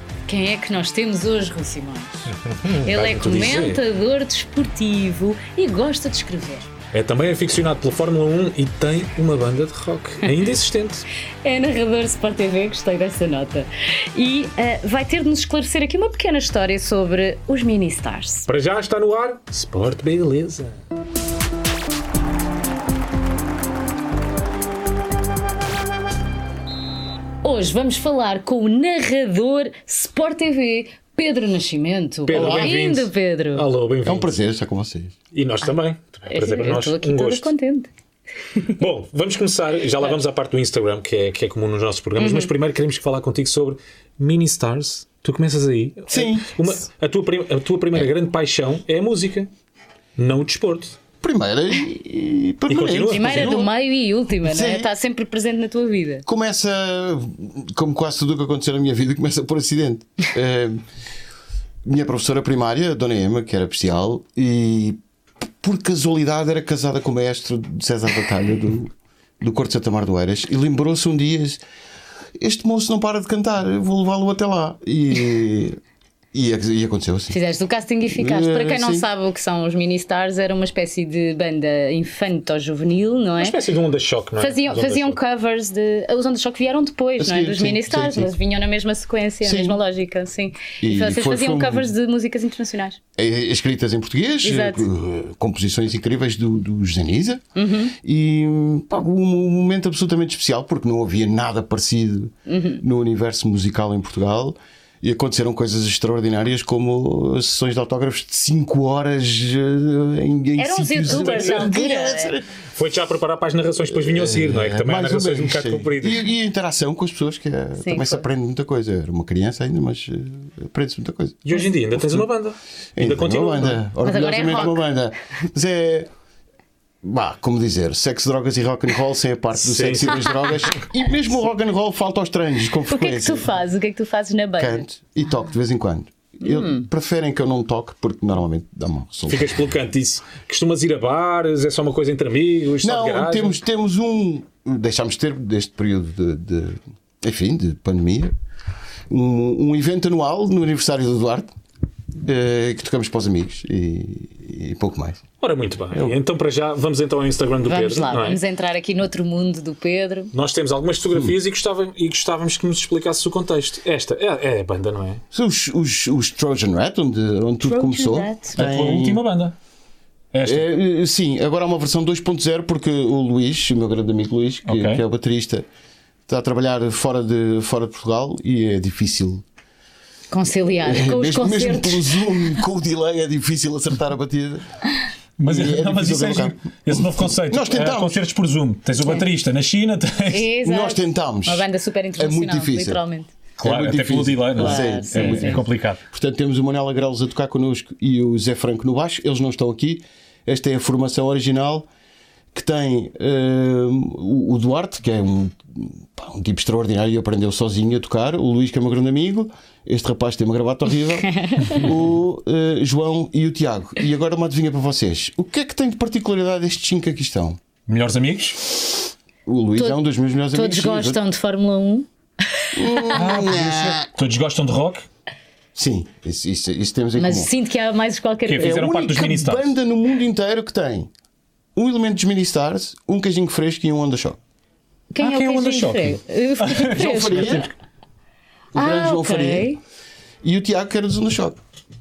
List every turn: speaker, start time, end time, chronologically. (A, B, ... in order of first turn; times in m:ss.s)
0:00.3-0:06.7 A
0:02.3-0:03.8 B
0:06.9-0:11.0 B
0:11.4-0:18.5 A
0:18.5-0:20.8 B
0:27.4-0:33.6 A
0:32.3-0:34.3 B
0:32.3-0:32.8 C
0:34.0-0:35.1 C
0:35.3-0:37.5 B
0:36.3-0:37.9 A
0:38.6-0:49.5 B
0:42.2-0:42.5 A
0:46.1-0:46.6 C
0:50.2-0:51.0 B
0:51.2-0:53.7 C
0:52.7-0:53.7 B
0:53.1-0:56.2 A
0:54.4-0:54.9 C
0:56.2-1:00.8 C
1:01.8-1:11.6 C
1:12.4-1:15.8 C
1:16.3-1:17.4 C
1:17.3-1:23.6 A
1:18.1-1:19.0 C
1:23.4-1:25.2 B
1:24.4-1:33.0 A
1:27.2-1:28.3 C
1:29.4-1:29.8 C
1:30.8-1:31.9 C
1:33.2-1:52.5 C
1:34.4-1:34.9 A
1:37.5-1:37.9 A
1:42.5-1:42.8 A
1:50.6-1:52.3 A
1:51.0-1:51.8 B
1:52.7-1:56.2 B
1:54.0-2:01.4 C
1:57.8-1:58.2 A
2:01.4-2:03.8 B
2:03.0-2:06.1 C
2:04.0-2:04.8 A
2:07.0-2:13.5 C
2:09.6-2:10.8 B
2:12.8-2:14.8 A
2:14.6-2:19.5 C
2:16.4-2:16.9 A
2:19.3-2:23.6 B
2:22.8-2:28.3 C
2:29.1-2:31.5 C
2:32.2-2:35.2 C
2:35.4-2:38.4 B
2:37.6-2:40.3 A
2:40.3-2:45.2 B
2:45.3-2:49.2 C
2:47.6-2:48.6 A
2:48.6-2:49.5 B
2:50.3-2:50.6 B
2:50.4-2:55.6 C
2:54.6-2:55.0 B
2:56.3-2:59.4 C
3:00.3-3:02.5 A
3:00.8-3:04.6 C
3:05.4-3:10.5 B
3:05.5-3:08.2 C
3:10.3-3:13.3 A
3:10.6-3:13.0 C
3:13.6-3:21.9 C
3:13.6-3:16.0 B
3:14.6-3:15.6 A
3:22.5-3:37.6 C
3:31.2-3:31.9 A
3:37.9-3:38.6 B
3:39.4-3:41.2 C
3:40.5-3:42.0 A
3:42.6-3:43.2 A
3:42.7-3:44.1 C
3:43.1-3:45.0 B
3:45.7-3:47.5 C
3:47.2-3:48.9 A
3:48.5-3:49.7 B
3:48.6-3:51.1 C
3:51.7-3:54.4 C
3:55.1-3:57.6 A
3:55.2-3:57.6 B
3:56.9-3:57.7 C
3:58.7-3:59.8 C
3:58.7-3:59.8 A
4:00.4-4:01.6 C